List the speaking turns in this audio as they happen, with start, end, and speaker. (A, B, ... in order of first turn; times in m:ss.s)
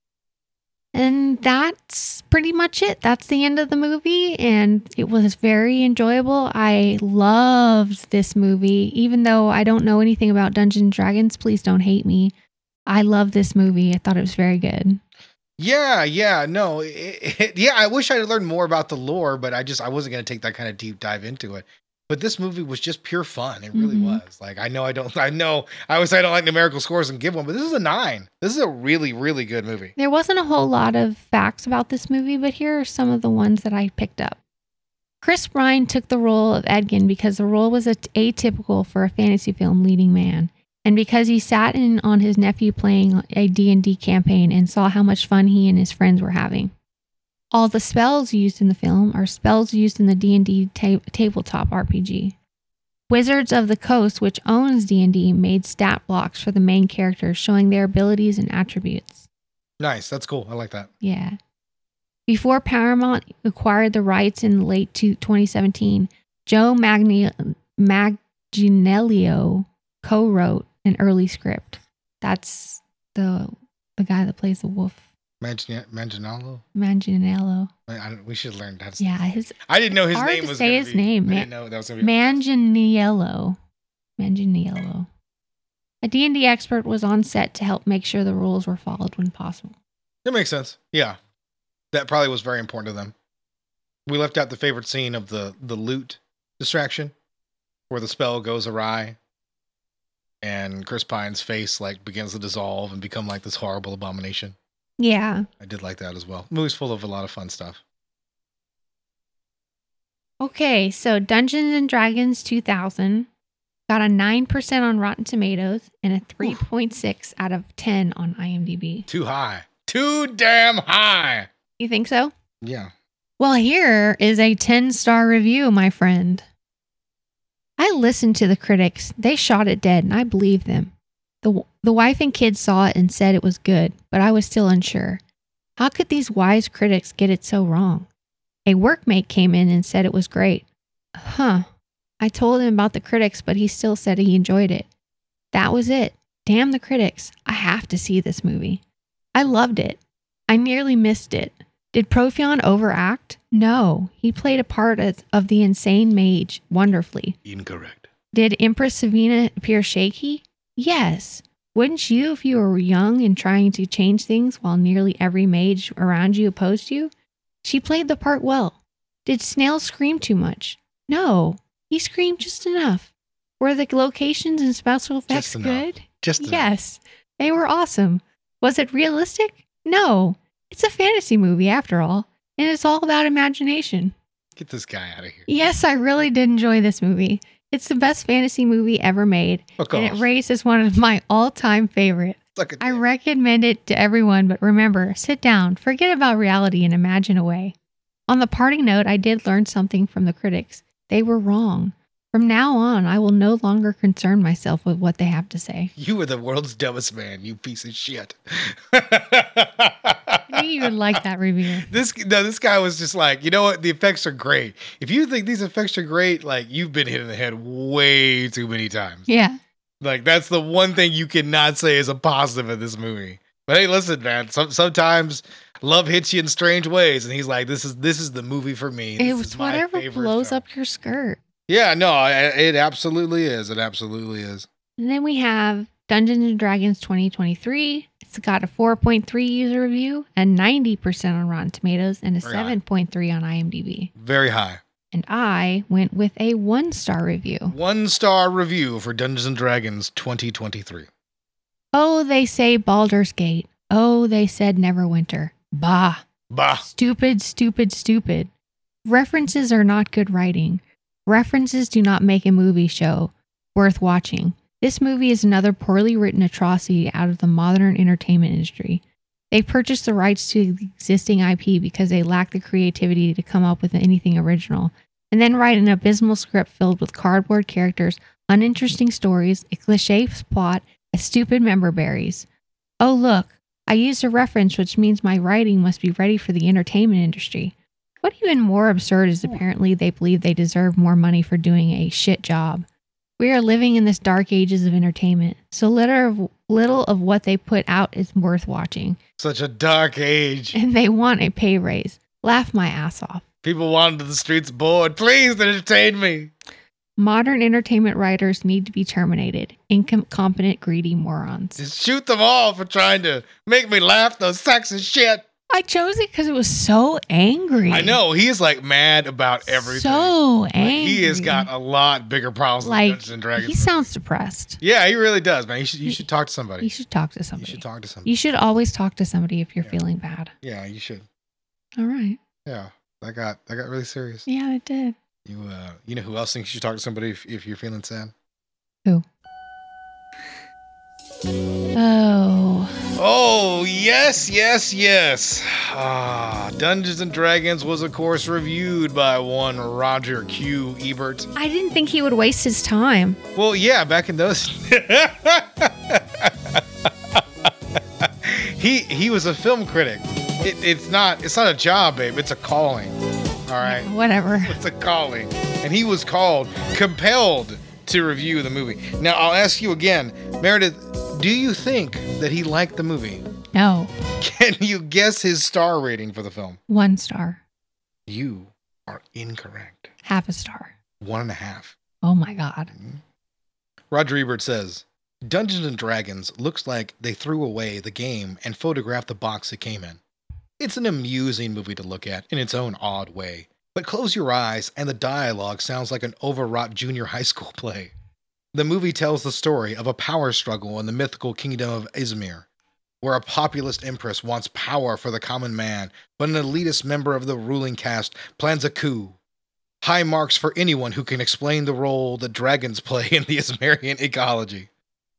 0:00.9-0:12.3 A
0:12.9-0:15.0 A
0:15.6-0:29.9 B
0:23.7-0:24.2 A
0:30.0-0:34.4 A
0:35.2-0:46.7 A
0:47.5-0:52.3 A
0:53.1-0:59.3 A
0:59.8-1:00.9 B
1:01.0-1:01.4 A
1:02.3-1:15.0 A
1:15.4-1:16.6 B
1:16.7-1:17.7 A
1:17.9-1:22.4 B
1:19.0-1:19.6 A
1:20.1-1:23.6 A
1:24.2-1:25.1 A
1:26.0-1:29.8 A
1:30.2-1:31.2 B
1:31.9-1:33.1 B
1:34.0-1:37.1 B
1:37.9-1:39.2 B
1:40.4-1:44.6 B
1:45.0-1:45.5 A
1:45.6-1:47.8 B
1:50.4-1:53.3 A
1:53.9-1:59.1 A
1:59.1-2:01.5 B
2:01.8-2:02.3 A
2:02.6-2:02.9 B
2:03.4-2:06.4 A
2:07.8-2:15.2 A
2:15.8-2:18.1 A
2:18.6-2:21.6 A
2:22.2-2:24.9 A
2:25.5-2:28.8 A
2:29.3-2:37.4 A
2:37.4-2:38.1 B
2:38.3-2:47.1 A
2:47.6-3:04.1 A
2:55.3-2:56.7 B
3:04.6-3:05.5 B
3:05.5-3:17.7 A
3:09.8-3:10.2 B
3:12.6-3:13.0 B
3:18.3-3:25.9 A
3:26.0-3:31.2 B
3:30.5-3:31.9 A
3:31.8-3:39.3 B
3:39.3-3:39.6 A
3:40.0-3:50.6 B
3:49.2-3:51.4 A
3:51.7-3:54.7 B
3:55.0-4:04.1 A
4:02.4-4:02.8 B
4:04.2-4:04.8 B
4:05.1-4:07.7 A
4:07.7-4:11.1 B
4:11.9-4:16.2 A
4:16.5-4:16.8 B
4:16.8-4:18.5 A
4:19.0-4:42.5 A
4:43.0-4:52.8 A
4:53.4-4:59.2 A
4:59.4-5:00.8 B
5:00.7-5:03.4 A
5:03.6-5:06.5 B
5:07.2-5:11.8 A
5:11.8-5:15.4 B
5:15.7-5:18.2 A
5:17.9-5:24.1 B
5:19.6-5:21.7 A
5:22.8-5:24.8 A
5:24.8-5:26.9 B
5:26.8-5:30.5 A
5:27.6-5:28.3 B
5:30.6-5:31.2 B
5:32.0-5:32.4 A
5:32.6-5:34.4 B
5:34.5-5:35.1 A
5:35.4-5:38.3 B
5:41.9-5:42.9 A
5:43.2-5:51.5 B
5:51.6-5:53.4 A
5:53.5-6:13.4 B
6:03.8-6:04.8 A
6:13.7-6:14.1 A
6:14.4-6:16.8 B
6:16.9-6:17.6 A
6:18.3-6:20.1 B
6:20.2-6:20.9 A
6:21.2-6:22.0 B
6:22.2-6:22.9 A
6:22.9-6:23.2 B
6:24.1-6:30.2 B
6:30.8-6:38.1 B
6:38.7-6:42.6 B
6:43.2-6:49.4 B
6:50.0-6:54.9 B